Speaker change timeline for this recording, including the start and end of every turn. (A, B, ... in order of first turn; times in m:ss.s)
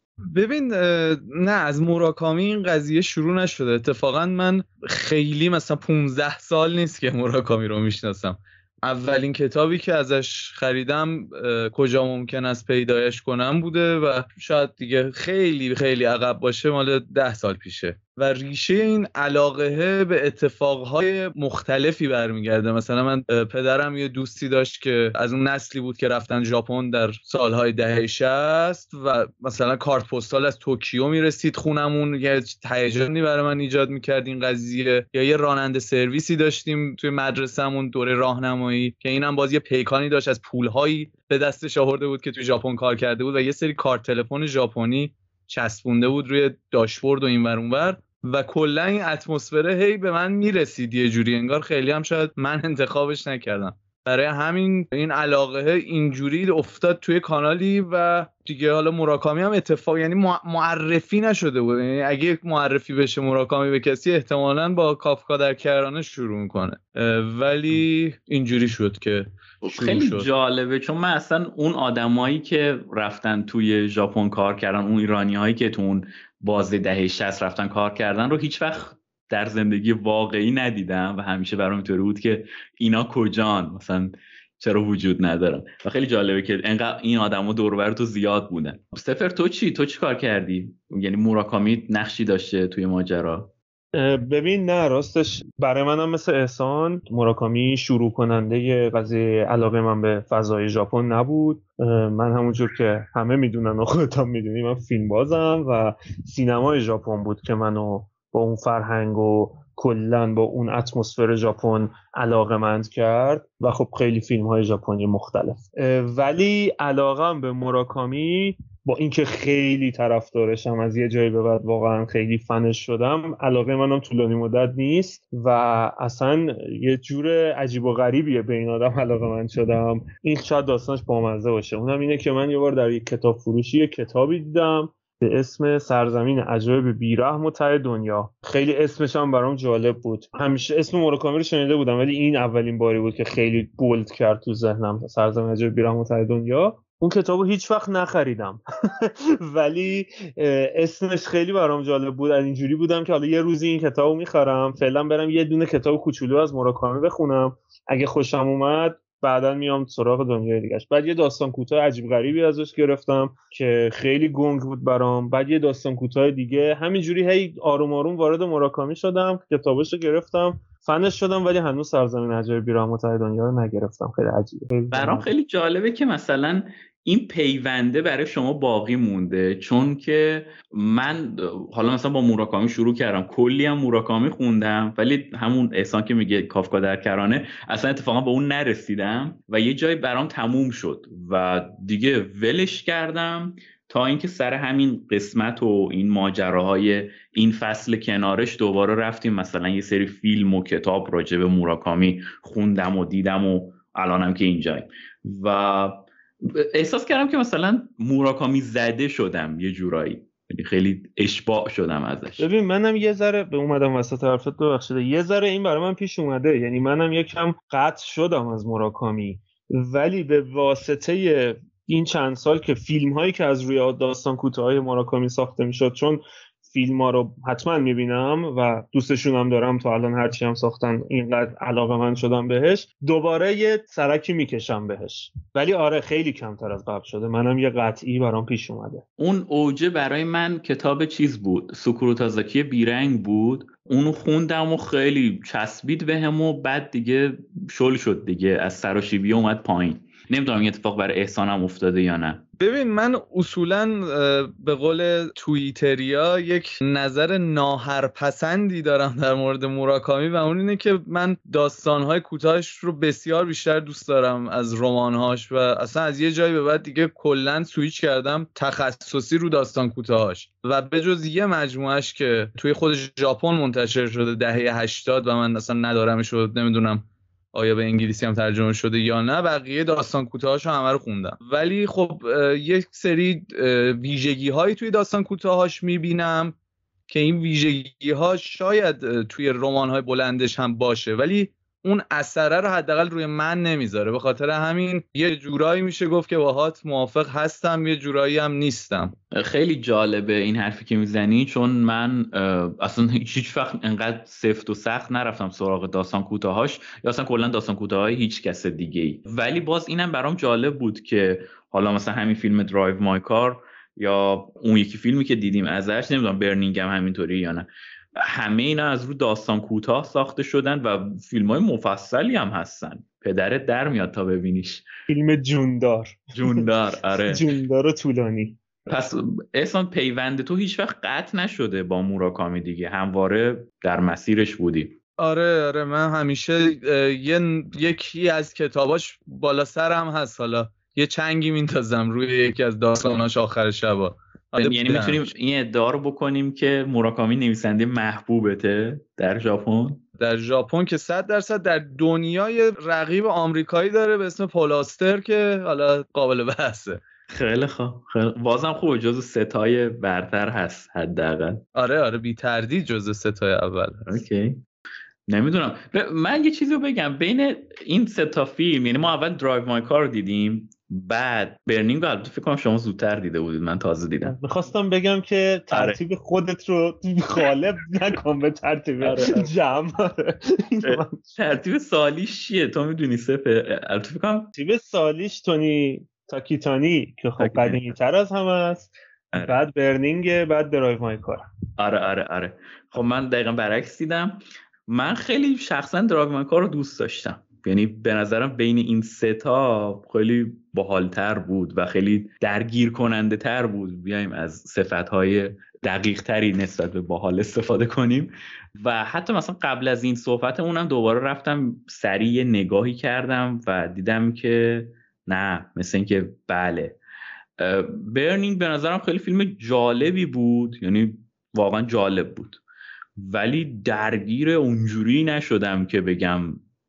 0:00.3-1:10.3 A
1:09.6-1:33.5 B
1:33.9-2:55.3 C
2:54.9-3:32.4 B
3:32.4-3:59.0 C
3:59.2-4:12.4 B
4:12.6-4:46.6 A
4:47.1-4:59.1 A
4:59.3-5:24.8 B
5:25.1-5:26.7 C
5:26.3-5:27.5 B
5:27.3-5:28.6 C
5:28.9-5:34.9 B
5:35.2-5:45.3 A
5:44.6-5:50.0 B
5:50.2-5:57.0 A
5:57.3-6:01.6 B
6:01.7-6:04.0 A
6:04.0-6:04.6 B
6:05.3-6:14.4 B
6:14.2-6:21.2 C
6:15.7-6:16.0 B
6:19.0-6:19.5 B
6:20.8-6:24.5 B
6:24.5-6:31.4 C
6:27.4-6:27.8 B
6:29.3-6:29.6 B
6:31.8-6:57.0 B
6:57.6-7:02.6 B
7:03.2-7:06.6 B